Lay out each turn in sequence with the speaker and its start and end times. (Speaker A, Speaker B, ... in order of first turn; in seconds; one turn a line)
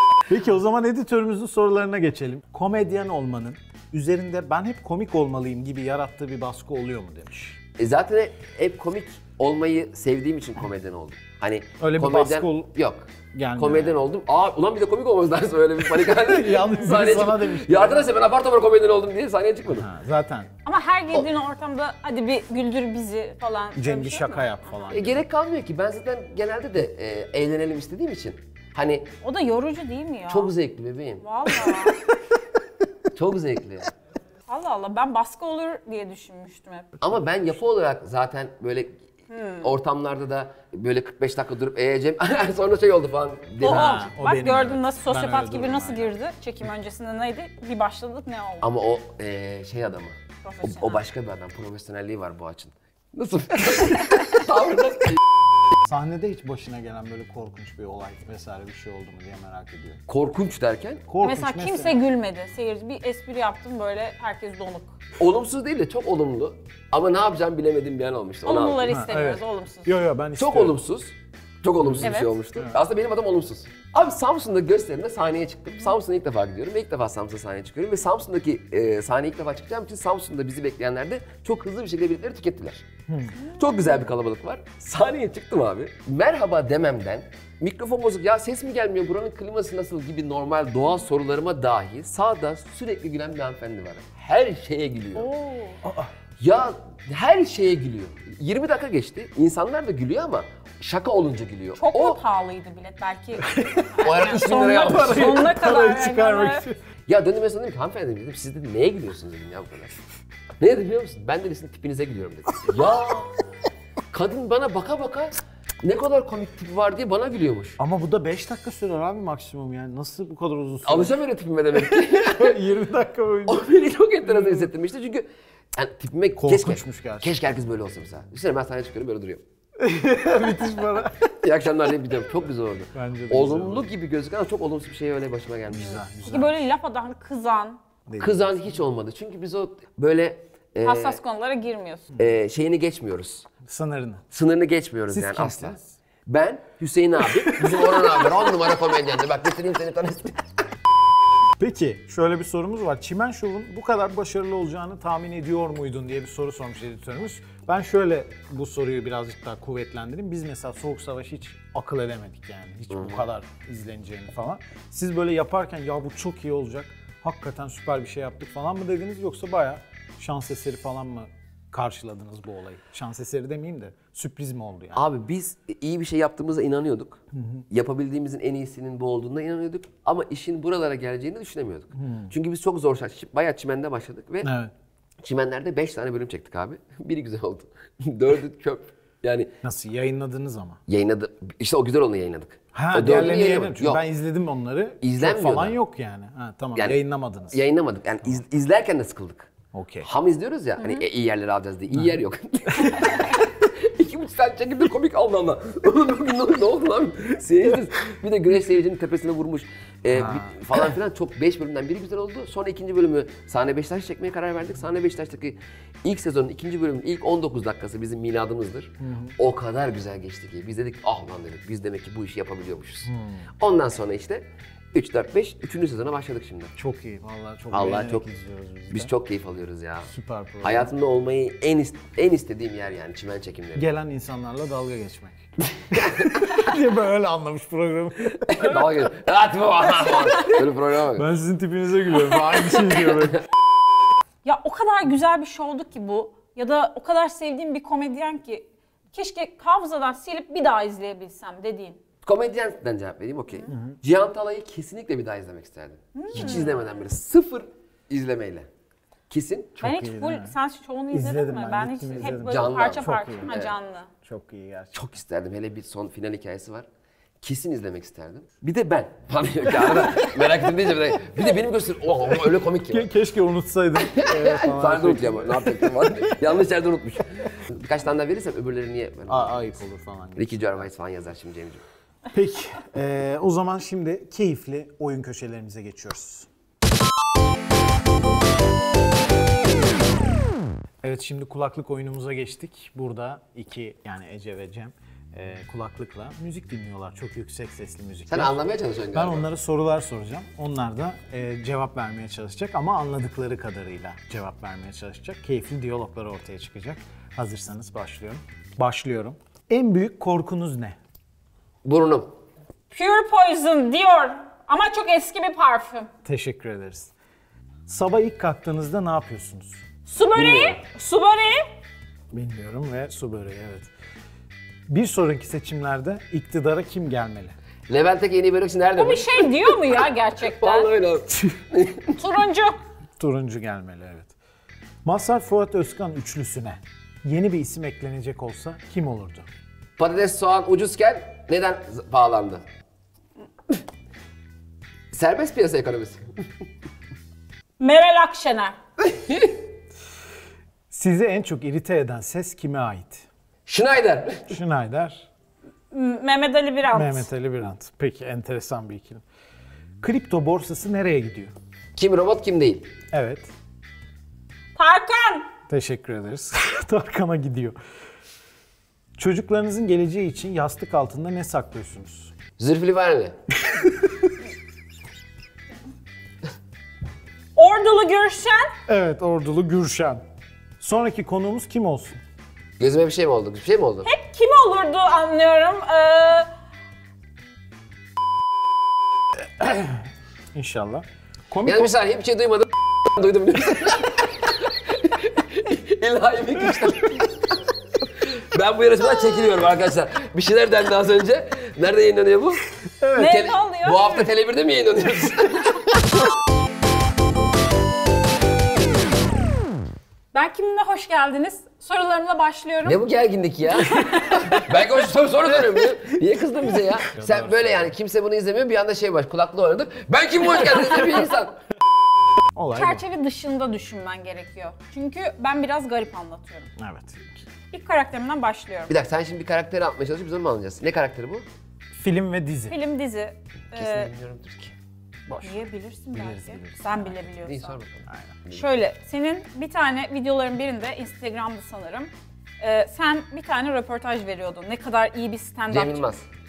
Speaker A: 0.3-7.6
Speaker B: 7.8-19.9
Speaker A: 11.8-12.7
Speaker A: 13.3-13.9
Speaker A: 16.0-18.1
Speaker A: 19.7-20.5
Speaker C: 20.6-24.4
Speaker A: 23.8-25.2
Speaker B: 24.9-29.1
Speaker C: 29.2-30.5
Speaker B: 30.3-31.2
Speaker C: 31.2-32.0
Speaker B: 33.1-33.9
Speaker C: 34.5-36.9
Speaker B: 37.0-39.0
Speaker C: 39.3-39.7
Speaker B: 39.6-44.0
Speaker A: 43.6-46.1
Speaker C: 43.6-48.7
Speaker B: 48.6-55.2
Speaker C: 50.4-51.0
Speaker A: 55.9-60.0
Speaker B: 60.1-61.0
Speaker A: 61.1-62.0
Speaker C: 61.2-65.0
Speaker B: 65.2-69.0
Speaker C: 68.4-69.9
Speaker A: 68.9-70.7
Speaker B: 70.4-82.8
Speaker A: 71.8-72.8
Speaker C: 72.0-72.3
Speaker A: 83.1-83.4
Speaker C: 83.4-84.0
Speaker B: 83.5-95.3
Speaker C: 95.1-95.8
Speaker A: 95.8-96.1
Speaker B: 96.4-102.2
Speaker C: 101.8-106.6
Speaker B: 104.0-105.5
Speaker A: 104.6-106.7
Speaker B: 107.1-109.9
Speaker B: 110.6-113.3
Speaker B: 114.1-117.8
Speaker A: 117.8-121.2
Speaker B: 120.8-122.6
Speaker A: 121.8-123.7
Speaker B: 123.5-129.4
Speaker A: 124.2-124.7
Speaker A: 126.4-127.3
Speaker A: 129.8-131.3
Speaker B: 131.4-136.0
Speaker A: 132.9-133.9
Speaker A: 135.7-136.6
Speaker C: 136.2-137.8
Speaker A: 138.1-138.8
Speaker B: 138.2-141.2
Speaker C: 140.8-142.0
Speaker B: 142.2-143.5
Speaker A: 143.6-144.2
Speaker B: 144.3-150.3
Speaker A: 145.1-145.9
Speaker A: 147.4-148.0
Speaker A: 151.6-175.0
Speaker B: 162.9-163.2
Speaker B: 174.9-177.2
Speaker A: 177.3-177.6
Speaker B: 177.7-184.5
Speaker A: 182.0-182.3
Speaker A: 184.4-184.7
Speaker B: 185.2-189.5
Speaker A: 189.6-190.8
Speaker B: 190.9-194.0
Speaker A: 192.7-197.6
Speaker B: 195.0-195.8
Speaker B: 197.5-199.5
Speaker A: 199.7-200.1
Speaker B: 200.0-223.1
Speaker A: 210.1-210.5
Speaker A: 219.0-219.3
Speaker A: 223.0-223.5
Speaker B: 223.6-226.7
Speaker A: 226.8-229.1
Speaker B: 227.7-228.2
Speaker B: 228.9-230.1
Speaker A: 230.0-230.9
Speaker B: 230.6-233.8
Speaker A: 233.8-235.4
Speaker A: 235.9-238.9
Speaker B: 238.5-241.3
Speaker A: 241.1-243.4
Speaker C: 242.1-243.0
Speaker C: 244.4-252.0
Speaker B: 252.2-258.7
Speaker A: 253.7-254.0
Speaker C: 256.1-256.7
Speaker B: 259.3-259.8
Speaker A: 259.8-260.5
Speaker C: 259.8-264.1
Speaker A: 261.1-263.5
Speaker B: 262.3-263.7
Speaker A: 264.2-265.1
Speaker B: 264.9-266.9
Speaker B: 267.4-273.1
Speaker A: 272.9-276.2
Speaker B: 274.0-279.8
Speaker A: 279.3-280.7
Speaker B: 280.3-281.8
Speaker A: 282.3-286.5
Speaker A: 291.0-298.5
Speaker B: 298.3-299.5
Speaker A: 299.1-310.9
Speaker B: 311.8-312.3
Speaker C: 312.9-316.1
Speaker A: 316.2-317.1
Speaker A: 317.9-319.8
Speaker C: 320.0-321.6
Speaker B: 320.3-320.8
Speaker A: 322.3-323.9
Speaker A: 324.9-327.5
Speaker B: 327.9-332.2
Speaker C: 328.9-330.9
Speaker C: 332.2-332.8
Speaker A: 333.2-334.3
Speaker A: 335.0-339.4
Speaker B: 340.0-342.6
Speaker B: 345.1-346.2
Speaker C: 347.8-348.7
Speaker B: 349.1-349.5
Speaker A: 350.9-353.2
Speaker B: 353.6-354.6
Speaker A: 354.5-355.3
Speaker C: 355.9-357.3
Speaker A: 356.9-359.2
Speaker A: 360.0-361.5
Speaker B: 361.9-362.9
Speaker A: 363.1-363.5
Speaker C: 364.8-365.5
Speaker A: 365.7-367.8
Speaker A: 369.2-372.3
Speaker B: 372.6-373.3
Speaker A: 373.7-374.3
Speaker C: 377.5-378.7
Speaker A: 378.9-380.2
Speaker A: 380.8-382.2
Speaker B: 382.8-384.1
Speaker C: 384.0-386.5
Speaker A: 389.6-391.9
Speaker B: 391.6-397.5
Speaker B: 398.2-402.6
Speaker A: 403.0-403.3
Speaker C: 403.1-404.1
Speaker B: 403.2-406.0
Speaker C: 410.3-413.0
Speaker B: 412.8-421.6
Speaker C: 413.7-414.6
Speaker A: 417.1-417.9
Speaker A: 422.6-423.0
Speaker C: 422.7-426.7
Speaker A: 426.8-427.5
Speaker C: 427.7-428.9
Speaker B: 428.9-431.4
Speaker A: 431.9-432.7
Speaker C: 432.7-434.1
Speaker B: 433.7-434.7
Speaker A: 435.3-435.6
Speaker C: 435.4-437.8
Speaker A: 436.1-437.2
Speaker B: 437.4-438.6
Speaker A: 438.1-438.4
Speaker C: 438.5-442.1
Speaker C: 442.6-446.1
Speaker B: 445.7-446.2